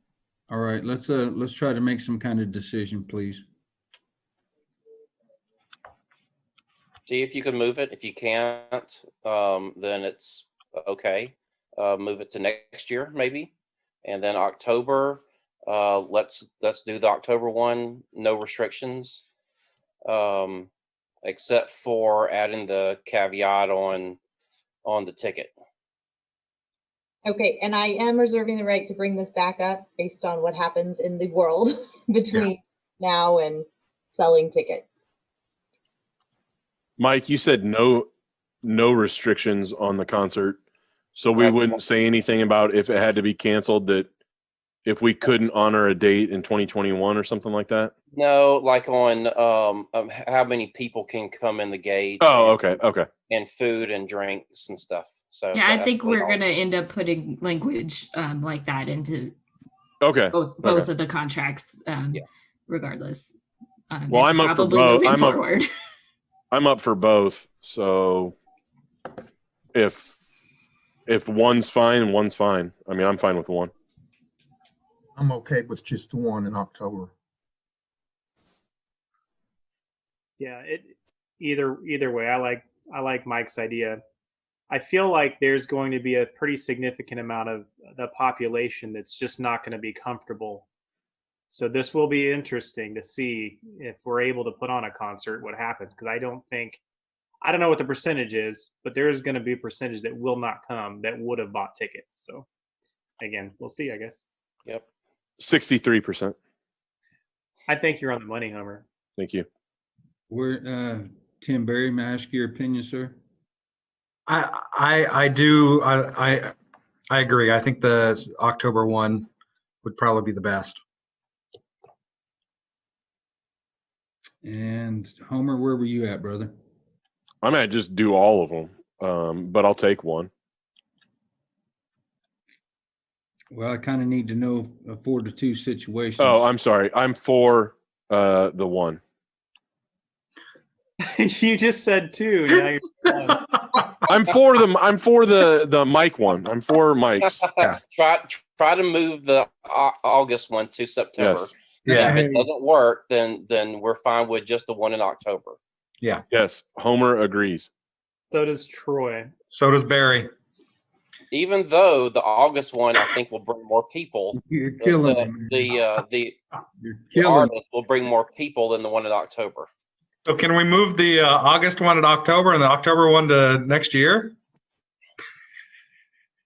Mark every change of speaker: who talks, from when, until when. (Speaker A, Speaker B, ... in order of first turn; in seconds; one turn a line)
Speaker A: 0.5-3.4
Speaker B: 7.1-13.5
Speaker B: 14.1-19.2
Speaker B: 20.1-20.7
Speaker B: 21.2-24.2
Speaker B: 24.9-25.5
Speaker C: 27.2-34.9
Speaker D: 37.0-38.1
Speaker D: 38.6-40.6
Speaker D: 41.1-44.1
Speaker B: 41.4-41.7
Speaker D: 44.9-47.9
Speaker B: 48.1-56.4
Speaker D: 52.2-53.1
Speaker E: 55.5-59.4
Speaker D: 60.0-60.9
Speaker E: 60.3-63.4
Speaker E: 63.9-65.7
Speaker D: 64.1-65.5
Speaker D: 66.5-68.3
Speaker D: 69.7-70.2
Speaker D: 71.1-73.7
Speaker F: 75.2-77.1
Speaker G: 80.4-84.0
Speaker G: 84.7-90.7
Speaker G: 91.5-96.8
Speaker G: 97.4-102.5
Speaker G: 103.2-104.3
Speaker D: 105.4-106.4
Speaker G: 107.7-108.9
Speaker D: 109.2-109.5
Speaker A: 110.3-113.2
Speaker H: 114.3-116.5
Speaker H: 117.1-119.3
Speaker H: 119.8-120.8
Speaker A: 124.4-126.5
Speaker D: 127.4-130.3
Speaker A: 133.5-136.5
Speaker D: 136.2-139.0
Speaker G: 141.0-143.5
Speaker D: 144.1-147.4
Speaker B: 147.2-155.6
Speaker D: 151.2-151.5
Speaker H: 151.9-152.2
Speaker A: 152.0-152.4
Speaker D: 156.3-157.7
Speaker G: 158.3-159.3
Speaker H: 159.5-160.3
Speaker B: 161.3-166.4
Speaker A: 164.3-165.7
Speaker A: 166.8-167.5
Speaker B: 167.1-169.7
Speaker H: 170.3-174.3